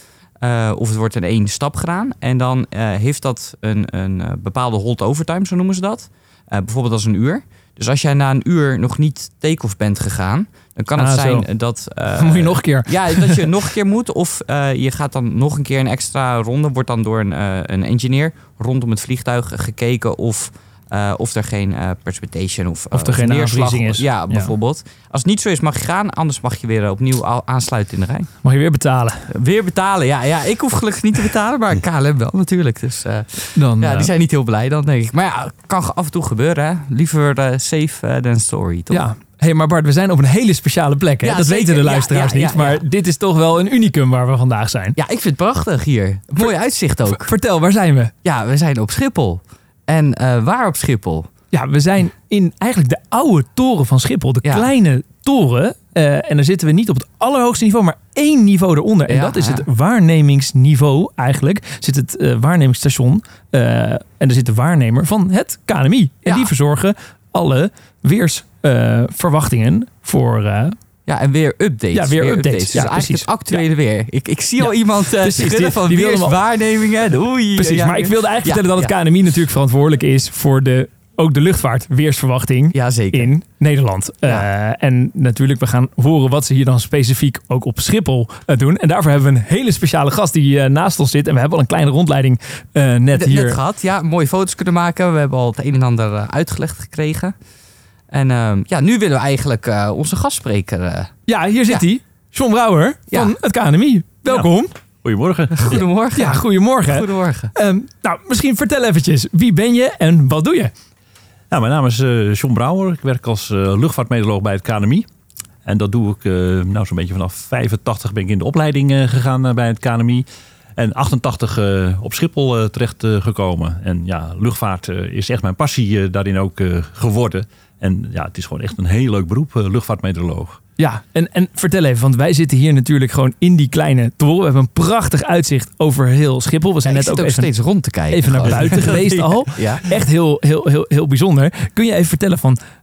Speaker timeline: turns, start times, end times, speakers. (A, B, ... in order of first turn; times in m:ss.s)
0:00.4-0:28.3 A
0:11.0-0:11.5 B
0:12.2-0:13.5 B
0:22.9-0:24.5 B
0:28.4-0:29.3 B
0:29.3-0:39.0 A
0:33.6-0:34.1 B
0:38.9-0:45.0 B
0:41.2-0:42.8 A
0:45.0-0:47.3 A
0:47.1-0:48.1 B
0:48.2-0:51.3 A
0:51.5-1:10.8 B
0:54.4-0:54.7 A
0:59.1-0:59.6 A
1:06.2-1:06.5 A
1:11.0-1:18.9 A
1:11.9-1:13.6 B
1:14.6-1:16.4 B
1:17.6-1:33.6 B
1:22.7-1:23.3 A
1:33.1-1:37.3 A
1:38.1-1:41.1 A
1:41.3-1:44.7 B
1:43.1-1:43.3 A
1:45.0-1:45.8 C
1:45.5-1:47.5 A
1:45.7-1:50.7 B
1:51.5-1:55.1 C
1:55.6-2:10.6 C
2:10.8-2:17.5 B
2:16.8-2:19.9 A
2:18.1-2:22.6 B
2:18.5-2:18.8 C